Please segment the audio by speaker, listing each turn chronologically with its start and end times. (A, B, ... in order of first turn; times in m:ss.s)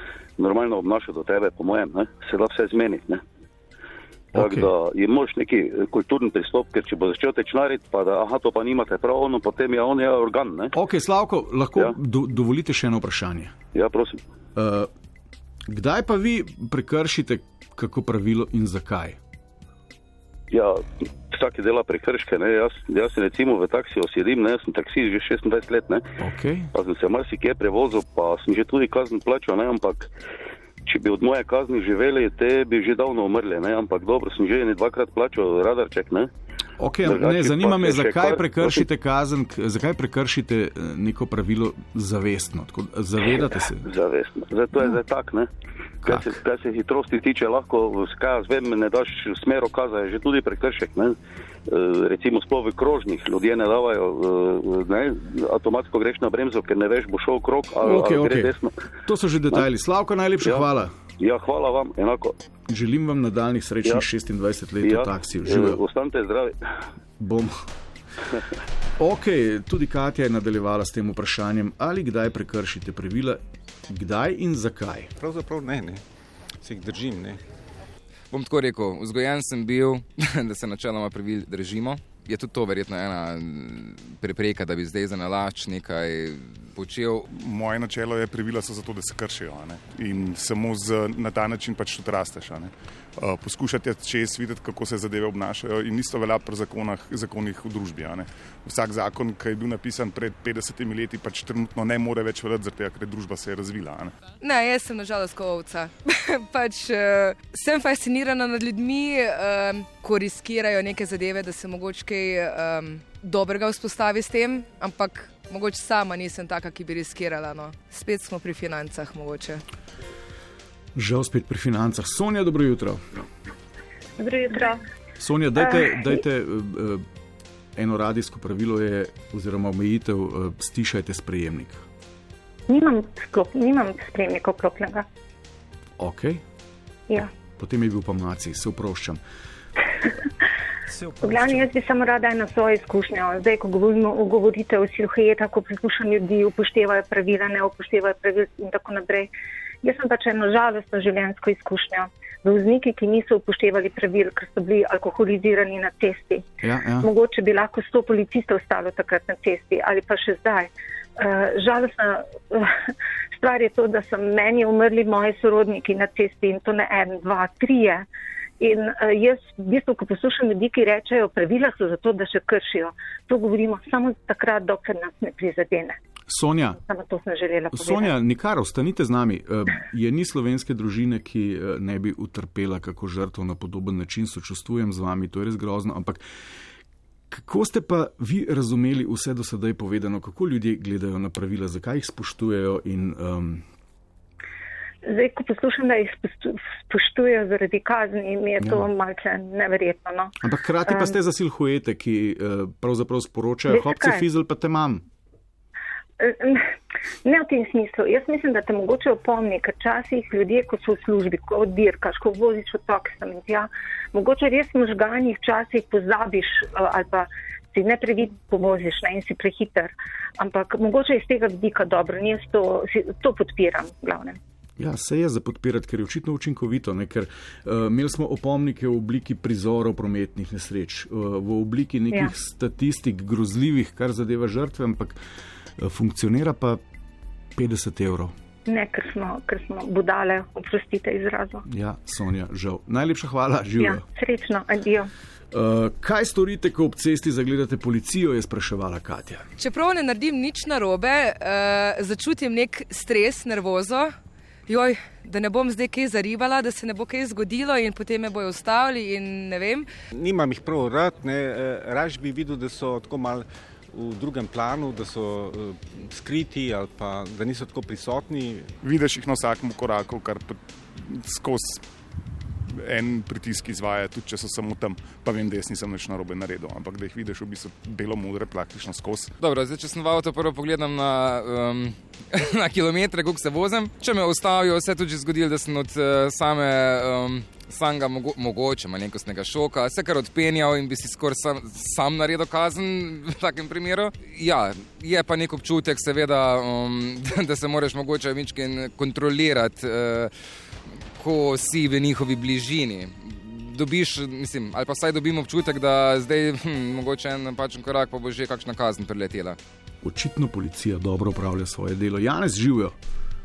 0:00.4-0:03.2 A
0:04.3-0:04.7 B
0:04.4-0:10.7 A
0:10.7-0:13.5 B
0:13.7-0:14.2 A
0:14.6-0:14.9 B
0:15.7-0:19.2 B
0:21.4-0:26.0 A
0:26.2-0:26.7 B
0:26.7-0:30.0 A
0:30.9-0:36.3 A
0:36.8-0:43.9 B
0:37.1-0:38.8 A
0:43.9-0:45.5 A
0:46.0-0:46.4 B
0:46.2-0:51.1 A
0:51.7-0:58.8 A
0:57.8-1:00.9 B
1:01.2-1:02.3 A
1:02.7-1:05.8 B
1:04.8-1:06.5 A
1:07.2-1:07.6 B
1:09.0-1:15.1 B
1:15.2-1:16.0 C
1:16.6-1:17.4 C
1:18.3-1:27.2 D
1:27.3-1:44.1 E
1:44.4-1:59.6 F
2:01.0-2:03.0 B
2:04.2-2:04.8 G
2:05.2-2:07.0 B
2:05.6-2:06.0 G
2:07.8-2:11.8 B
2:12.7-2:15.0 G
2:16.0-2:16.4 B
2:17.5-2:19.2 B
2:21.2-2:29.3 G
2:29.8-2:36.4 G
2:36.6-2:37.1 B
2:37.0-2:42.7 G
2:43.4-2:48.0 G
2:48.6-2:56.0 G
2:56.3-2:56.8 B
2:56.8-2:58.1 G
2:57.7-3:06.2 B
3:07.3-3:13.6 B
3:15.0-3:20.3 G
3:18.6-3:18.9 B
3:20.4-3:25.0 B
3:20.8-3:21.1 G
3:23.7-3:24.2 G
3:26.2-3:26.6 G
3:27.2-3:44.4 G
3:44.8-3:55.2 B
3:55.8-3:56.8 B
3:57.6-3:58.3 B
3:58.6-4:01.6 G
4:01.6-4:04.0 B
4:03.8-4:05.1 G
4:05.5-4:09.4 B
4:09.6-4:14.1 F
4:14.7-4:19.9 F
4:20.1-4:28.7 C
4:28.8-4:31.8 E
4:32.8-4:39.3 E
4:39.4-5:00.3 D
5:01.2-5:09.6 D
5:10.0-5:12.9 B